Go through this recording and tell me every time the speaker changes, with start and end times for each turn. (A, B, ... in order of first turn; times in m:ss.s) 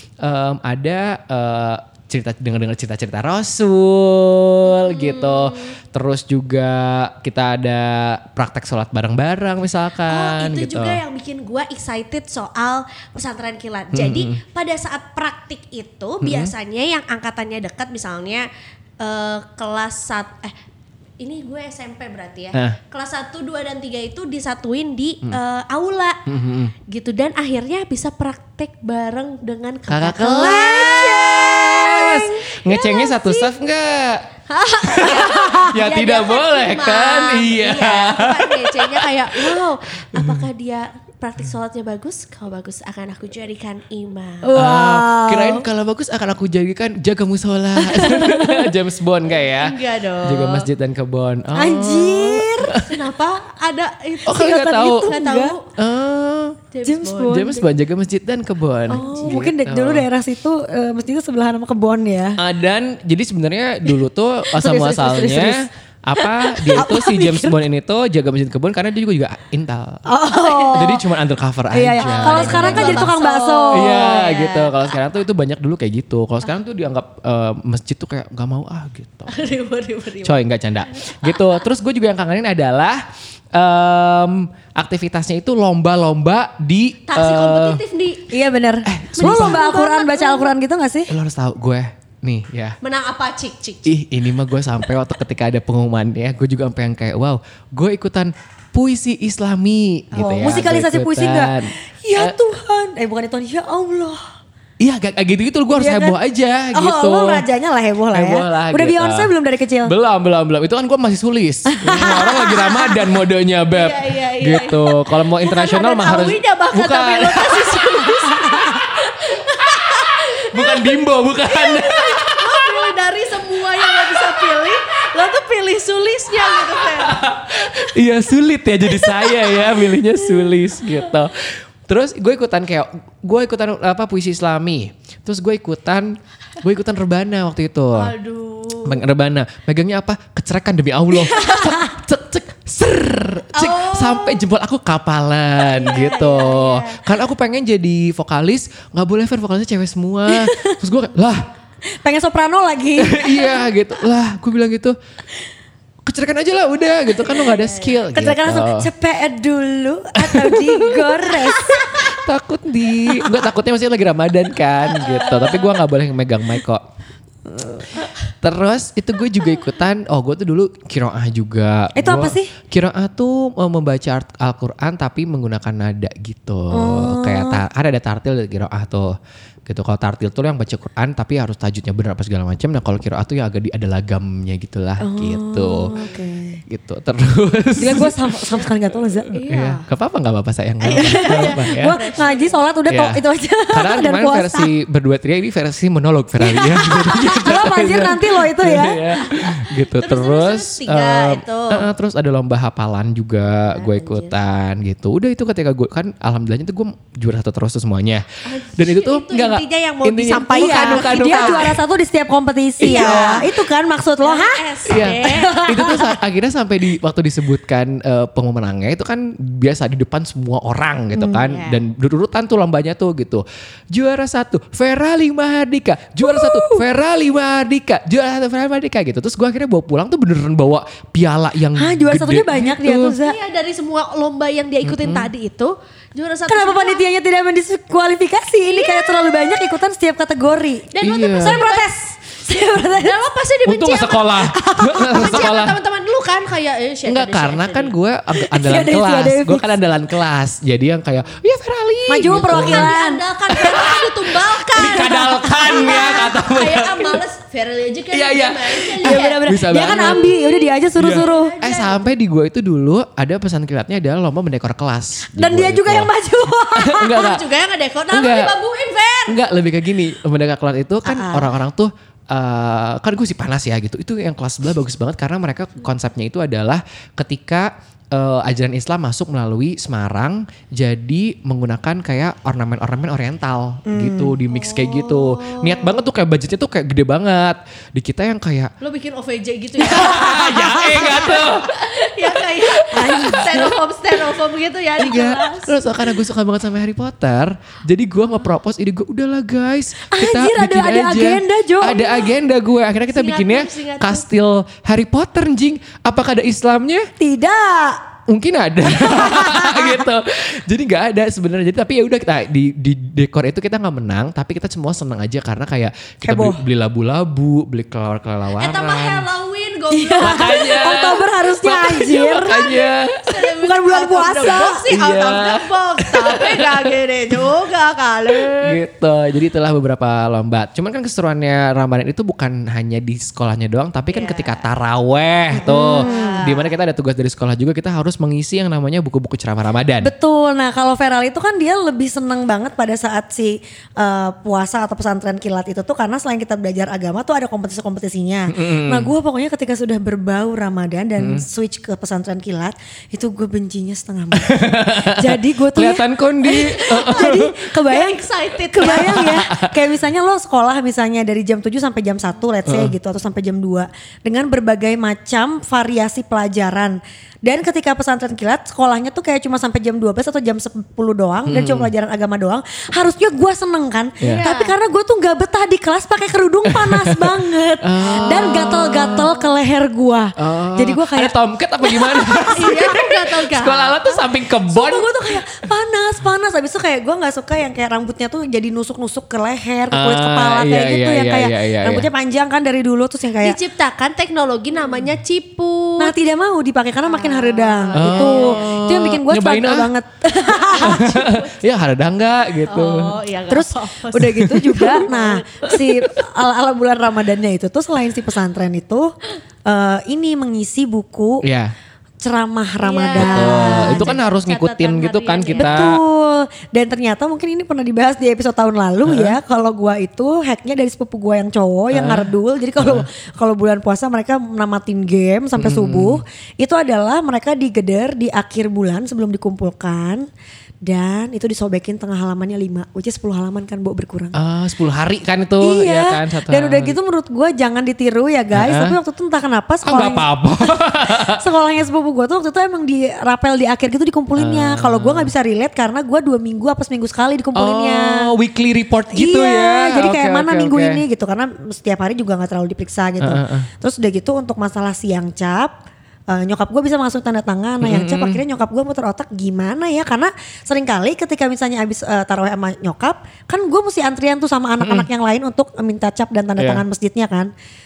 0:00.2-0:11.0 A
0:04.7-0:05.8 B
0:10.1-0:18.5 B
0:13.9-0:14.4 A
0:16.2-0:16.5 A
0:19.0-0:20.5 B
0:21.2-0:26.2 B
0:26.3-0:26.7 A
0:26.9-0:33.5 B
0:29.9-0:34.2 A
0:30.6-0:32.4 C
0:34.5-0:44.6 B
0:34.9-0:39.5 A
0:40.1-0:40.5 A
0:44.4-0:45.7 C
0:44.6-0:52.9 A
0:47.8-0:48.7 C
0:49.3-0:50.7 B
0:51.5-0:52.8 C
0:52.8-0:55.6 B
0:54.2-0:55.6 C
0:54.3-0:55.1 A
0:55.8-0:56.6 A
0:56.7-0:57.4 B
0:56.8-0:57.7 C
0:57.2-1:00.1 A
0:58.9-1:02.4 C
0:58.9-0:59.5 B
1:02.4-1:10.0 A
1:04.5-1:05.7 C
1:06.2-1:07.6 C
1:10.1-1:11.0 C
1:10.3-1:10.9 B
1:10.7-1:13.2 A
1:11.7-1:14.2 C
1:12.0-1:14.9 B
1:13.7-1:19.5 A
1:19.3-1:20.4 B
1:20.2-1:23.0 A
1:21.0-1:21.5 B
1:23.6-1:27.8 A
1:27.1-1:28.4 B
1:28.3-1:31.1 C
1:28.9-1:29.7 A
1:29.2-1:30.5 B
1:31.1-1:32.8 A
1:32.8-1:33.9 B
1:33.9-1:42.4 A
1:40.1-1:44.2 C
1:44.8-1:47.5 A
1:45.7-1:46.2 C
1:46.7-1:49.9 C
1:48.1-1:49.3 A
1:49.8-1:58.0 A
1:51.7-1:53.0 C
1:53.7-2:07.8 B
1:58.0-1:58.8 C
2:00.5-2:02.8 A
2:06.8-2:18.1 A
2:09.4-2:10.2 B
2:17.9-2:19.0 B
2:18.8-2:31.5 A
2:23.5-2:24.4 B
2:25.6-2:27.1 B
2:30.3-2:30.9 C
2:32.0-2:33.8 C
2:33.0-2:35.0 A
2:36.1-2:38.9 A
2:37.2-2:37.6 C
2:37.4-2:38.0 B
2:38.1-2:42.2 C
2:40.2-2:41.2 A
2:42.0-2:46.8 A
2:43.1-2:43.4 C
2:44.9-2:45.7 B
2:47.5-2:48.1 C
2:48.4-2:59.1 A
2:51.9-2:52.5 C
2:56.7-2:57.6 C
2:59.7-3:05.9 A
3:05.0-3:06.6 C
3:06.0-3:06.2 B
3:06.7-3:08.7 A
3:07.8-3:09.3 C
3:09.3-3:09.9 B
3:09.4-3:12.0 A
3:10.8-3:12.7 B
3:10.9-3:14.7 C
3:12.9-3:31.8 A
3:16.4-3:19.5 C
3:19.9-3:21.9 B
3:23.9-3:24.3 B
3:28.4-3:31.7 B
3:30.3-3:36.2 C
3:32.8-3:33.5 A
3:32.8-3:33.5 B
3:34.2-3:35.6 B
3:34.9-3:53.2 A
3:41.1-3:41.6 C
3:41.4-3:41.8 B
3:46.2-3:46.9 C
3:51.7-3:53.4 C
3:53.2-3:57.0 B
3:54.8-3:55.3 A
3:56.5-4:03.3 C
3:58.6-3:59.7 B
4:00.9-4:01.9 B
4:01.0-4:01.6 A
4:03.0-4:04.4 B
4:03.7-4:05.8 A
4:04.4-4:05.5 C
4:05.1-4:07.9 B
4:07.1-4:12.9 A
4:08.4-4:09.8 C
4:12.1-4:13.2 C
4:12.5-4:22.1 B
4:13.5-4:14.1 A
4:14.8-4:17.2 A
4:14.8-4:16.3 C
4:18.1-4:20.4 A
4:19.0-4:21.6 C
4:21.0-4:26.1 A
4:25.3-4:27.2 C
4:26.8-4:27.4 A
4:27.1-4:29.4 B
4:28.1-4:28.6 A
4:29.3-4:48.7 A
4:31.0-4:31.6 C
4:43.9-4:44.4 C
4:44.5-4:46.0 B
4:48.8-4:55.9 B
4:49.8-4:53.7 A
4:50.8-4:51.0 C
4:52.9-4:53.5 C
4:55.0-4:55.4 C
4:55.0-5:07.1 A
5:00.1-5:02.3 C
5:03.1-5:04.3 B
5:07.2-5:08.0 C
5:08.3-5:19.3 A
5:08.9-5:10.0 C
5:16.2-5:16.6 C
5:18.6-5:21.1 B
5:19.9-5:22.7 C
5:20.2-5:23.2 A
5:22.5-5:28.8 B
5:23.5-5:24.9 C
5:24.9-5:26.6 A
5:28.4-5:40.1 A
5:34.1-5:34.7 B
5:35.5-5:36.5 C
5:35.6-5:36.7 B
5:40.0-6:23.0 C
5:48.5-5:49.1 A
5:51.2-5:51.5 A
5:54.3-5:57.7 A
5:56.7-5:59.4 B
5:59.0-5:59.9 A
6:02.7-6:02.9 A
6:11.5-6:11.9 A
6:14.2-6:14.5 A
6:14.2-6:14.8 B
6:16.8-6:17.3 A
6:17.8-6:19.4 A
6:20.4-6:25.4 A
6:22.5-6:24.2 B
6:24.7-6:33.6 C
6:29.9-6:32.1 A
6:33.4-6:36.1 B
6:36.0-6:41.0 C
6:37.0-6:38.6 B
6:37.9-6:40.0 A
6:40.7-6:41.6 B
6:40.8-6:43.2 A
6:42.7-6:45.9 B
6:43.5-6:49.1 C
6:44.4-6:44.8 A
6:49.7-6:51.4 C
6:51.4-6:51.7 A
6:52.2-6:54.2 C
6:52.8-6:55.9 B
6:53.1-6:56.0 A
6:55.6-7:10.3 C
6:59.1-6:59.4 A
7:01.9-7:03.0 A
7:05.6-7:06.2 A
7:10.8-7:14.4 C
7:14.4-7:17.0 A
7:15.6-7:28.3 C
7:18.5-7:19.0 A
7:19.8-7:21.4 A
7:24.4-7:25.3 A
7:27.6-7:31.0 A
7:29.1-7:35.8 C
7:33.2-7:33.7 A
7:36.3-7:47.5 C
7:37.8-7:38.4 A
7:44.8-7:45.1 A
7:46.6-7:46.8 A